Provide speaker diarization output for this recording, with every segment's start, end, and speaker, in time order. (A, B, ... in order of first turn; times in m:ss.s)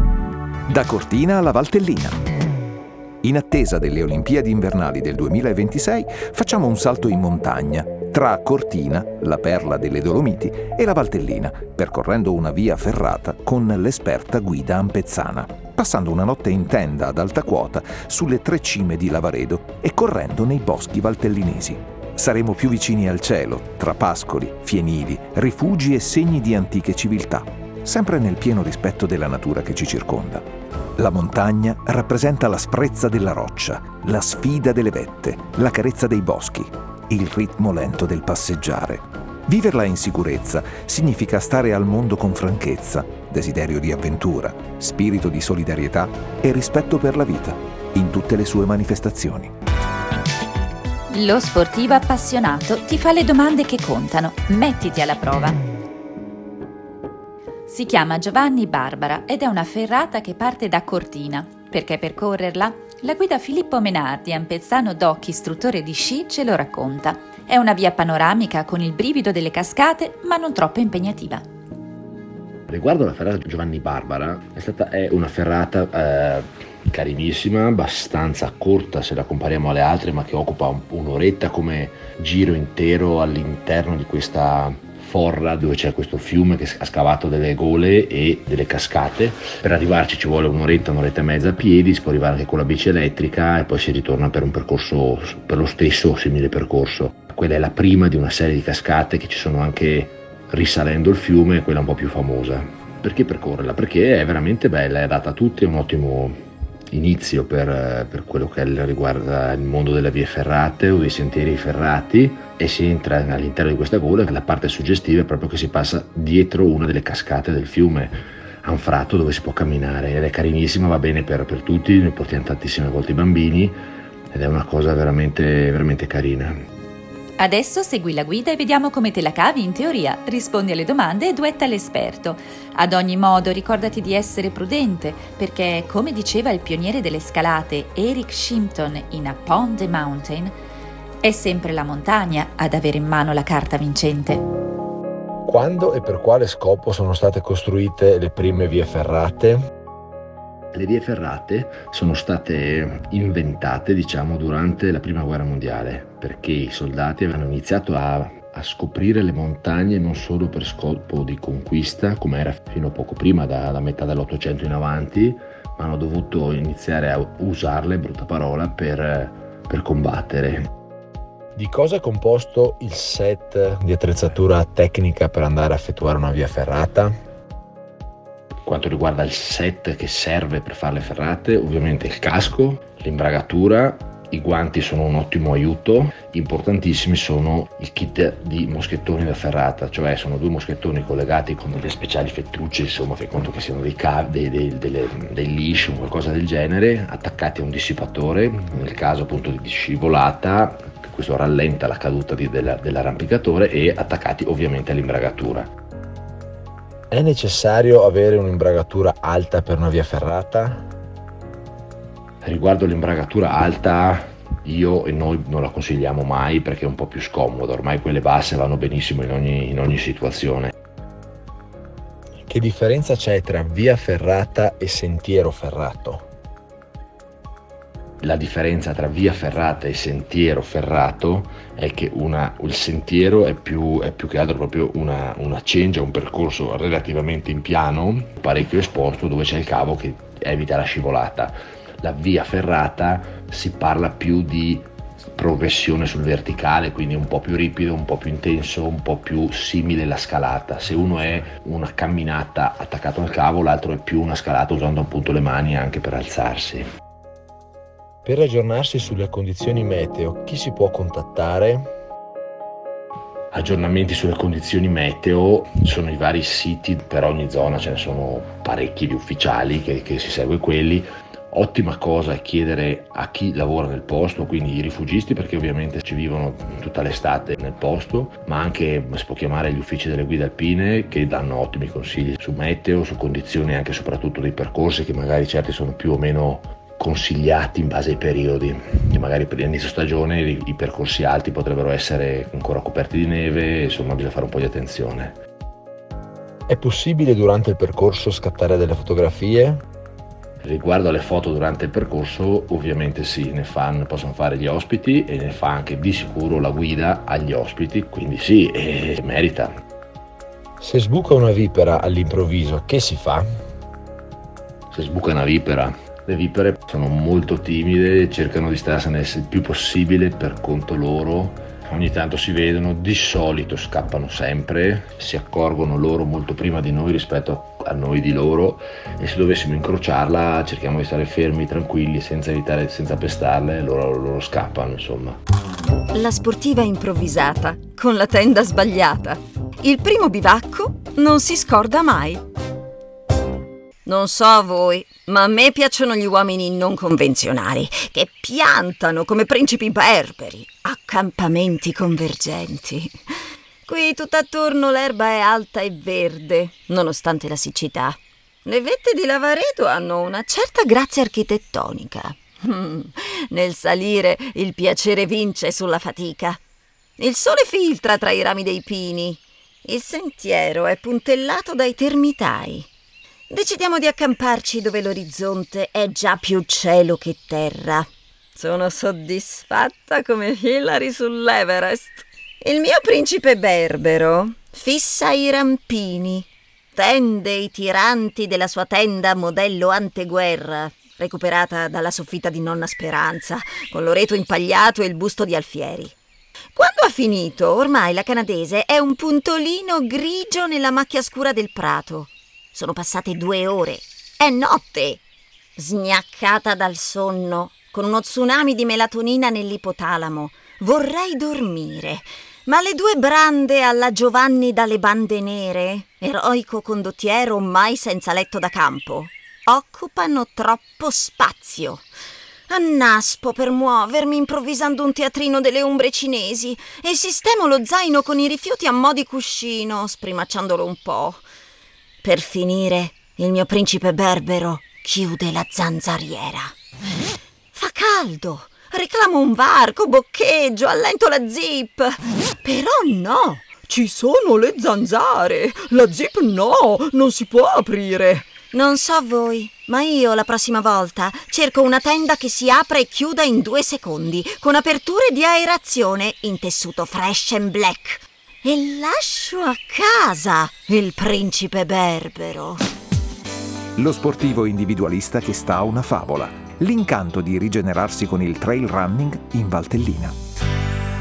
0:00.7-0:02.2 A
0:03.2-0:30.4 A
0:31.0-0:49.5 A
0:51.1-0:55.6 B
0:57.7-1:11.4 B
1:12.7-1:46.4 C
1:46.9-2:03.7 C
2:04.3-2:06.6 C
2:07.4-2:20.5 B
2:21.2-2:24.4 B
2:25.4-2:29.6 D
2:30.7-2:50.7 C
2:51.6-2:57.1 D
2:58.6-3:25.7 C
3:27.1-3:30.8 D
3:32.4-3:40.7 C
3:42.5-3:46.3 D
3:48.2-4:16.8 C
4:18.2-4:21.9 D
4:23.5-4:55.4 C
4:56.7-4:59.8 D
5:00.6-5:09.7 C
5:10.8-5:13.4 D
5:14.9-5:35.4 C
5:36.1-5:42.4 E
5:44.0-5:53.3 E
5:53.8-6:06.6 E
6:07.2-6:12.9 E
6:13.5-6:36.1 E
6:36.7-6:45.2 E
6:45.8-7:02.1 E
7:02.7-7:11.4 E
7:12.2-7:16.7 E
7:17.7-7:42.8 E
7:44.0-7:50.3 A